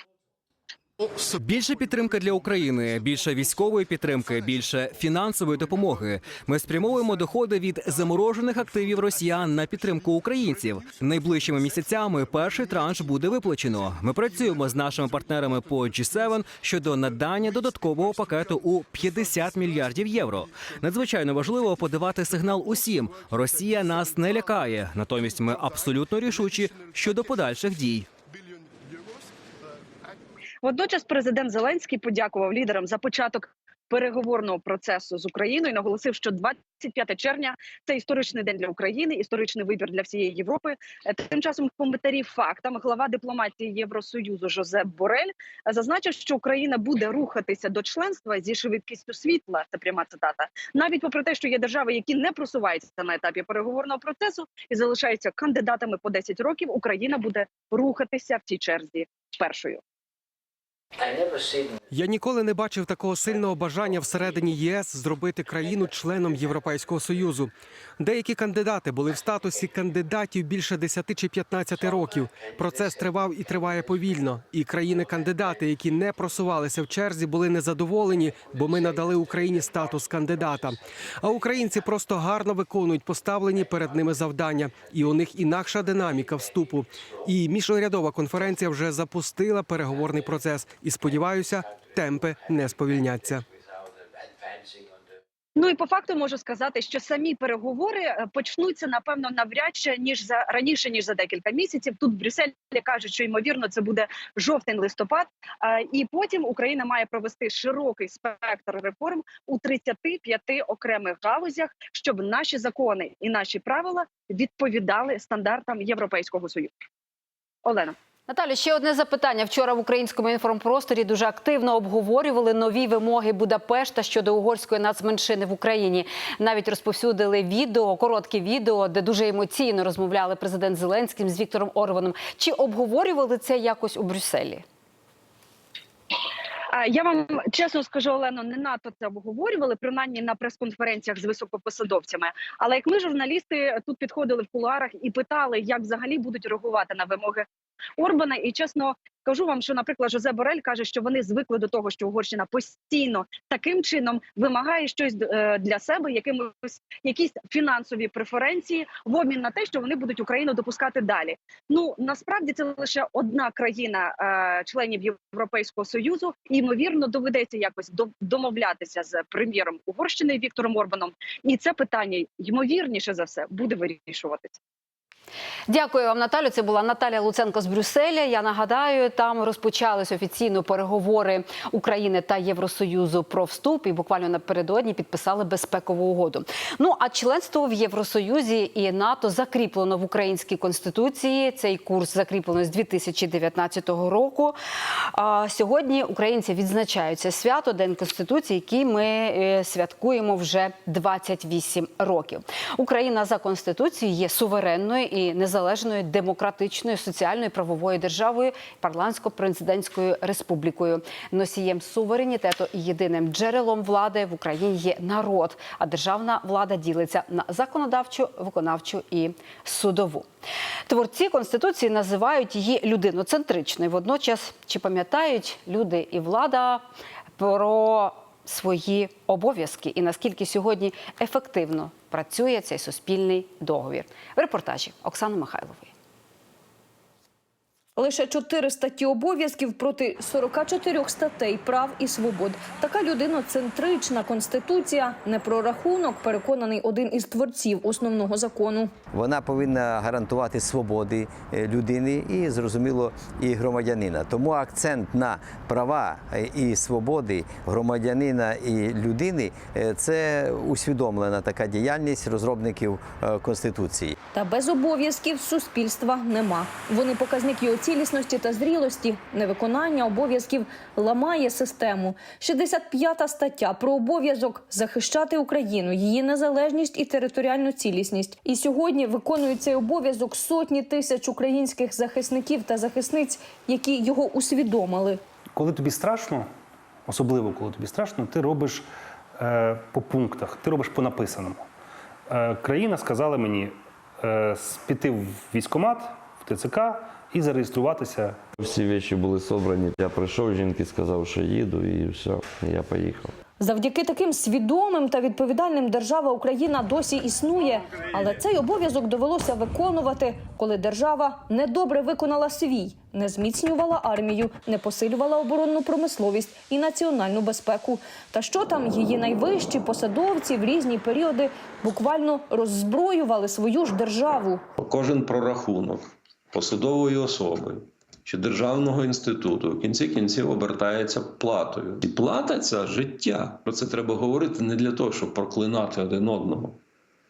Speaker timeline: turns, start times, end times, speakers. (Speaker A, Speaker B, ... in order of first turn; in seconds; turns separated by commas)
Speaker A: 1.4-28.1, Speaker B: 11.2-11.6, Speaker B: 12.5-13.6, Speaker B: 14.4-14.8, Speaker B: 15.4-16.4, Speaker B: 17.2-18.7, Speaker B: 19.3-20.2, Speaker B: 22.7-24.1, Speaker B: 30.6-59.8, Speaker C: 62.0-80.7, Speaker C: 81.2-93.4, Speaker B: 95.6-116.7, Speaker B: 117.7-117.9, Speaker D: 118.3-134.7, Speaker B: 136.7-147.5, Speaker B: 148.0-174.6, Speaker D: 175.7-194.6, Speaker D: 195.1-220.3, Speaker D: 220.9-226.8, Speaker D: 227.4-235.9, Speaker E: 238.0-248.9, Speaker F: 249.1-264.2, Speaker E: 264.3-285.2, Speaker G: 285.6-286.5, Speaker G: 287.1-288.9, Speaker G: 289.4-291.6, Speaker G: 292.3-298.4, Speaker H: 298.6-303.3, Speaker E: 303.6-324.6, Speaker I: 324.8-336.8